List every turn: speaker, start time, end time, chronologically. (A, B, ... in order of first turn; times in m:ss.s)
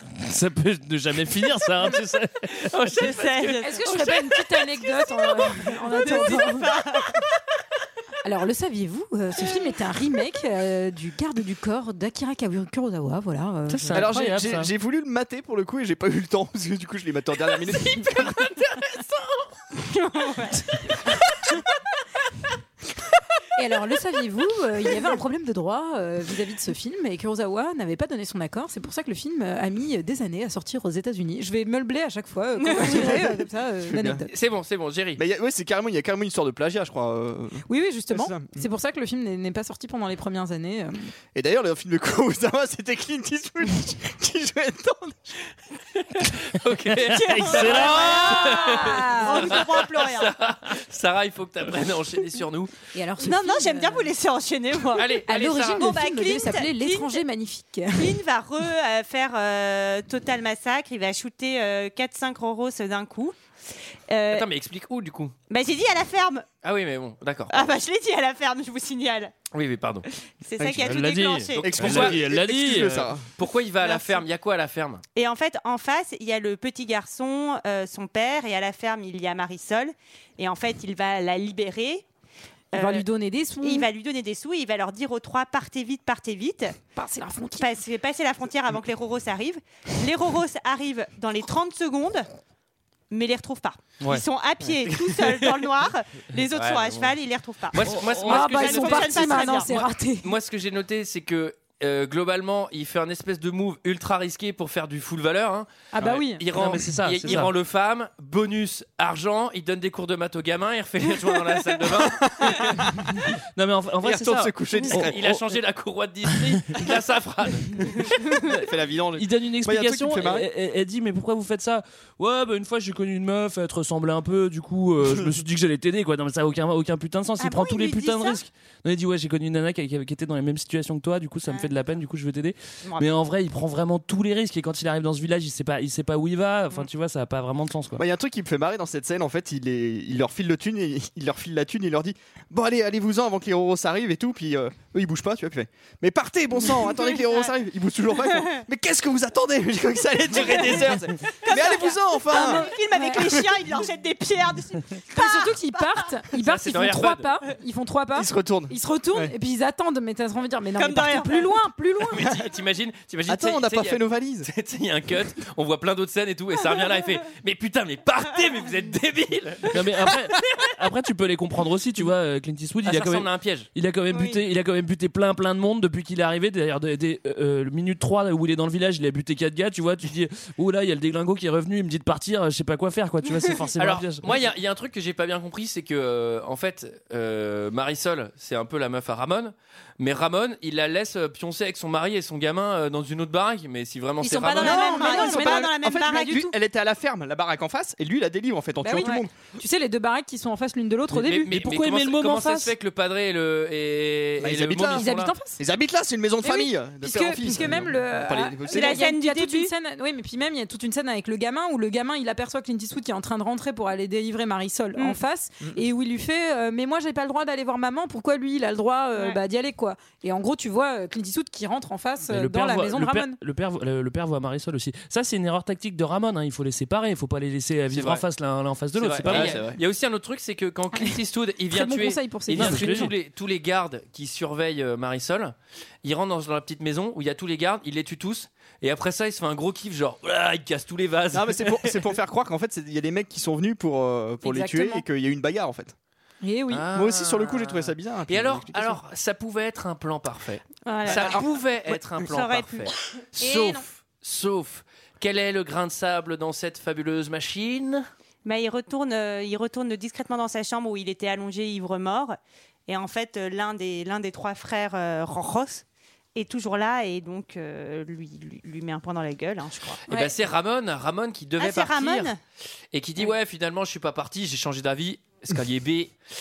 0:00.2-0:02.5 A
0:02.5-0:03.7 B
0:02.9-0:04.3 C
0:03.6-0:06.8 D
0:05.1-0:07.2 C
0:08.2-0:14.1 D
0:13.7-0:14.7 A
0:13.9-0:18.5 E
0:19.9-0:20.6 C
0:23.5-0:34.3 D
0:32.7-0:33.1 C
0:32.7-0:34.2 E
0:34.3-0:35.2 B
0:35.2-0:38.6 E
0:37.7-0:41.1 D
0:41.3-0:45.3 E
0:45.9-0:52.7 B
0:47.1-0:48.4 A
0:47.3-0:50.3 C
0:48.0-0:49.5 D
0:52.9-0:54.1 D
0:53.2-0:55.2 C
0:54.9-0:55.9 B
0:55.2-0:58.2 D
0:55.7-0:57.2 C
0:57.9-1:03.4 C
1:04.1-1:04.5 C
1:04.3-1:05.3 B
1:05.5-1:06.5 C
1:06.6-1:07.7 B
1:07.5-1:09.3 C
1:09.5-1:10.1 B
1:10.4-1:11.9 C
1:10.6-1:10.9 E
1:10.8-1:13.1 A
1:11.5-1:13.2 E
1:11.7-1:12.2 B
1:13.4-1:15.0 B
1:13.8-1:14.2 C
1:15.1-1:22.0 C
1:22.7-1:23.0 C
1:22.7-1:23.9 D
1:23.6-1:26.8 C
1:26.9-1:27.7 D
1:27.6-1:32.3 C
1:33.1-1:39.8 C
1:35.2-1:35.4 B
1:36.5-1:37.1 B
1:37.7-1:52.7 B
1:37.8-1:39.0 A
1:38.3-1:40.3 D
1:46.0-1:46.4 D
1:46.5-1:47.5 A
1:52.2-1:53.1 E
1:53.6-1:55.4 A
1:54.0-1:55.3 E
1:54.0-1:58.4 B
1:58.5-2:00.5 E
1:59.2-2:18.0 A
2:07.4-2:08.4 C
2:11.4-2:11.7 C
2:12.8-2:13.2 C
2:18.0-2:32.7 E
2:30.4-2:30.8 C
2:30.4-2:30.8 D
2:31.4-2:36.0 C
2:32.3-2:33.4 D
2:35.1-2:42.3 D
2:36.4-2:37.4 B
2:38.1-2:39.3 E
2:40.8-2:41.5 C
2:42.1-2:49.8 B
2:43.3-2:44.5 E
2:49.7-3:04.3 A
2:52.8-2:53.7 B
2:54.1-2:54.4 C
3:03.8-3:14.9 B
3:14.3-3:16.5 D
3:14.4-3:16.5 C
3:14.6-3:19.3 E
3:18.8-3:21.5 D
3:21.1-3:25.3 B
3:21.5-3:22.7 A
3:24.4-3:25.1 E
3:24.9-3:25.6 D
3:25.6-3:29.1 E
3:26.4-3:43.4 D
3:28.7-3:29.7 C
3:42.3-3:49.6 A
3:47.9-3:48.2 B
3:48.9-4:02.2 B
3:49.3-3:49.8 E
3:51.7-3:53.1 D
3:52.6-3:53.1 A
4:01.3-4:05.9 E
4:04.4-4:05.0 D
4:06.4-4:06.9 D
4:06.7-4:18.0 B
4:06.9-4:09.0 E
4:10.8-4:11.5 C
4:11.1-4:11.4 E
4:12.2-4:12.9 C
4:13.4-4:13.8 D
4:18.4-4:30.3 C
4:30.1-4:32.3 B
4:31.6-4:32.4 C
4:32.9-4:36.1 B